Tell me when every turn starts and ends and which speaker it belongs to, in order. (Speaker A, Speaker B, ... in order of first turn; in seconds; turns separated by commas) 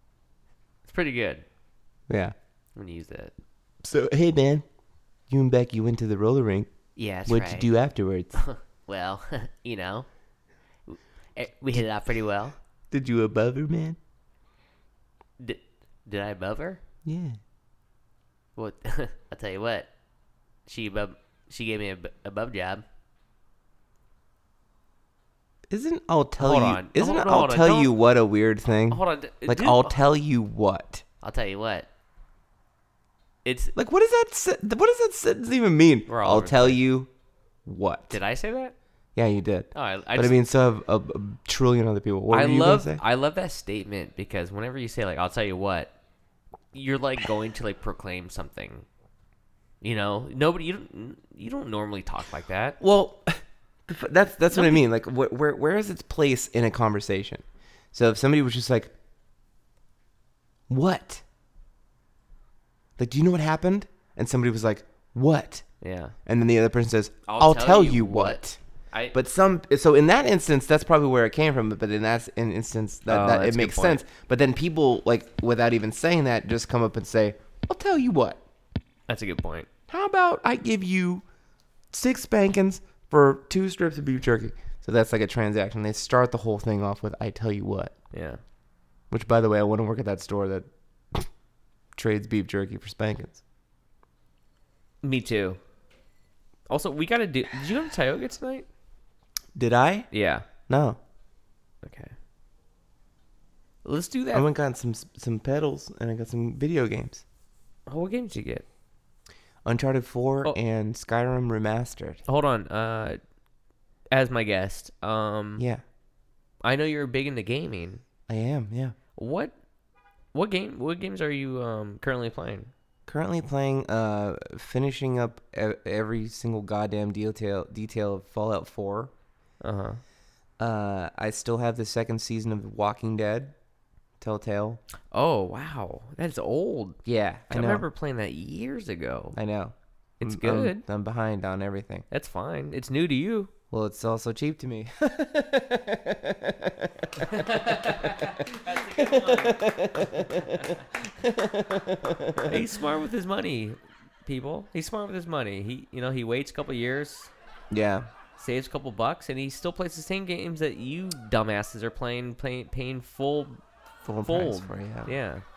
Speaker A: 0.8-1.4, Speaker B: 2.1-2.3, Speaker A: 2.8-3.3, Speaker B: 3.8-4.7, Speaker B: 5.3-6.7, Speaker A: 7.0-7.7, Speaker B: 7.3-8.4, Speaker A: 8.3-10.1, Speaker A: 10.9-12.6, Speaker B: 12.9-14.0, Speaker A: 15.4-16.8, Speaker B: 17.1-17.4, Speaker A: 18.6-19.9, Speaker A: 20.7-22.8, Speaker B: 25.7-31.0, Speaker A: 26.4-27.9, Speaker A: 28.7-30.0, Speaker A: 31.2-31.9, Speaker A: 33.4-33.7, Speaker B: 33.8-37.1, Speaker A: 36.1-36.8, Speaker B: 37.7-38.2, Speaker A: 38.1-38.8, Speaker B: 39.1-43.0, Speaker A: 39.7-40.4, Speaker A: 42.3-45.9, Speaker A: 46.7-48.9, Speaker A: 49.8-52.8, Speaker B: 52.8-58.9, Speaker A: 54.5-54.9, Speaker B: 60.7-61.2, Speaker B: 63.0-65.7, Speaker A: 65.8-66.2, Speaker B: 66.3-68.6, Speaker A: 67.3-69.2, Speaker B: 69.1-78.4, Speaker A: 73.1-74.0, Speaker A: 79.1-79.7, Speaker B: 79.9-81.2, Speaker B: 81.9-88.0, Speaker A: 88.1-88.4, Speaker B: 89.1-91.3, Speaker B: 92.0-93.4, Speaker A: 95.0-95.6, Speaker A: 96.7-98.7, Speaker B: 99.5-100.1, Speaker A: 100.1-100.5, Speaker B: 100.7-101.0, Speaker A: 101.8-102.1, Speaker A: 103.8-104.5, Speaker B: 104.3-107.2, Speaker A: 107.9-108.7, Speaker B: 109.7-112.2, Speaker A: 112.3-113.2, Speaker A: 114.1-115.6, Speaker B: 115.6-115.8, Speaker A: 116.6-118.0, Speaker B: 118.3-119.0, Speaker A: 119.2-119.5, Speaker A: 120.3-122.7, Speaker B: 123.1-129.1, Speaker A: 129.6-130.0, Speaker B: 130.6-133.5, Speaker B: 134.2-134.8, Speaker A: 135.1-139.4, Speaker B: 137.1-137.9, Speaker B: 139.3-142.1, Speaker A: 140.2-140.8, Speaker A: 142.1-143.5, Speaker B: 143.7-152.7, Speaker A: 147.3-150.8, Speaker A: 152.5-157.3, Speaker B: 157.7-158.1, Speaker A: 158.4-163.6, Speaker B: 164.1-165.1, Speaker A: 164.3-165.4